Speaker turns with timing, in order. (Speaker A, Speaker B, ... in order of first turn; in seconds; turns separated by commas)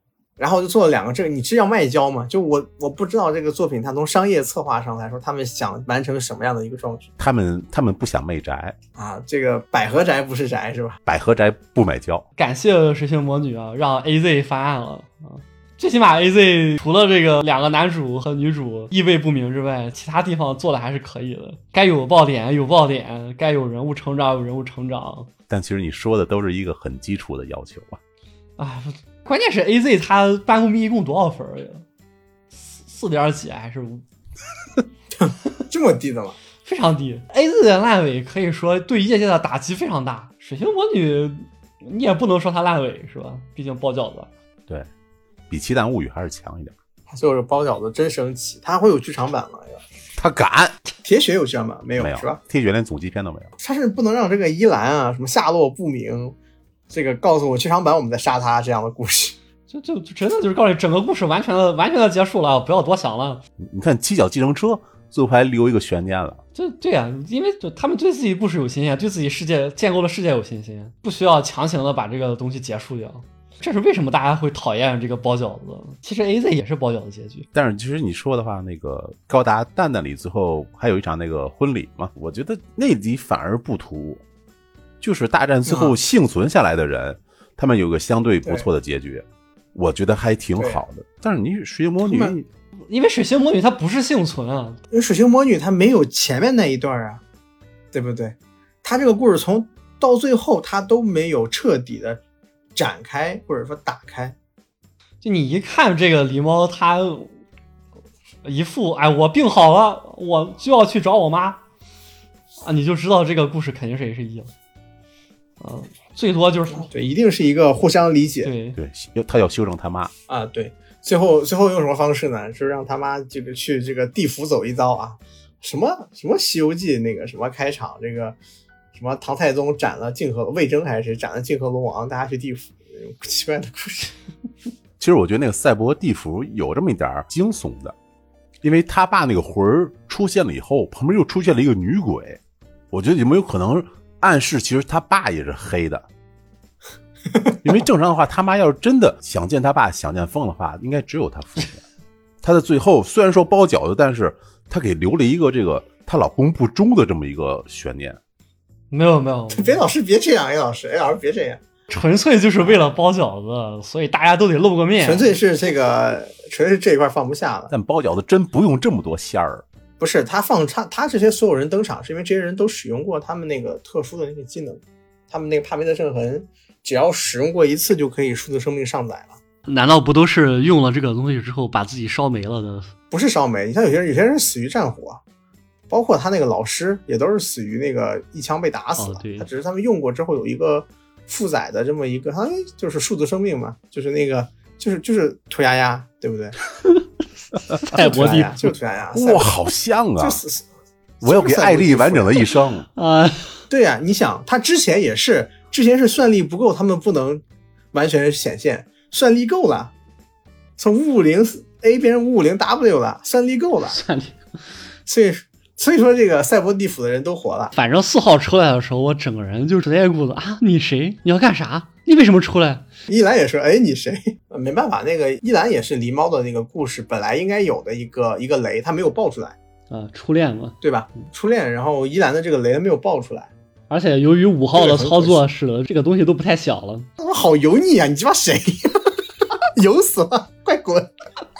Speaker A: 0.4-7.1, Speaker B: 7.2-8.7, Speaker A: 9.0-11.0, Speaker B: 11.1-12.2, Speaker C: 12.4-25.3, Speaker B: 25.5-28.0, Speaker C: 28.6-31.8, Speaker C: 32.7-34.0, Speaker A: 35.2-36.4, Speaker C: 36.6-44.3, Speaker B: 45.5-46.7, Speaker A: 47.1-49.8, Speaker B: 50.2-50.8, Speaker A: 51.0-52.4, Speaker B: 52.0-53.5, Speaker A: 53.6-56.4, Speaker A: 56.9-59.4, Speaker C: 59.7-63.4, Speaker B: 63.6-66.4, Speaker C: 66.5-77.5, Speaker B: 77.5-84.2, Speaker B: 85.0-89.2, Speaker A: 85.7-86.0, Speaker A: 88.4-88.7, Speaker B: 89.8-92.5, Speaker A: 92.0-92.3, Speaker C: 92.9-94.8, Speaker A: 94.9-97.2, Speaker A: 97.9-102.2, Speaker A: 102.8-104.4, Speaker C: 105.2-107.3, Speaker C: 108.4-111.6, Speaker C: 112.6-114.5, Speaker C: 115.6-116.9, Speaker A: 116.8-118.5, Speaker C: 118.4-118.8, Speaker B: 118.8-120.1, Speaker A: 120.3-128.4, Speaker A: 128.9-134.2, Speaker B: 135.0-137.9, Speaker B: 138.6-142.4, Speaker B: 142.9-146.1, Speaker B: 147.6-151.8, Speaker B: 152.4-158.2, Speaker C: 158.9-159.8, Speaker A: 159.5-161.6, Speaker C: 161.9-165.3, Speaker A: 165.0-167.7, Speaker B: 167.7-169.6, Speaker A: 170.0-179.4, Speaker C: 179.7-182.9, Speaker A: 183.1-185.2, Speaker A: 185.9-196.6, Speaker C: 189.0-189.5, Speaker C: 197.8-198.5, Speaker A: 197.9-199.5, Speaker B: 199.2-200.4, Speaker A: 200.2-200.6, Speaker A: 201.2-202.5, Speaker B: 201.2-202.9, Speaker C: 203.0-203.6, Speaker A: 203.7-209.9, Speaker A: 210.8-214.0, Speaker C: 213.9-214.4, Speaker A: 215.1-217.7, Speaker C: 217.7-222.8, Speaker A: 223.1-229.6, Speaker C: 229.9-230.8, Speaker A: 230.8-233.5, Speaker C: 233.9-237.1, Speaker A: 234.8-235.4, Speaker A: 237.2-241.1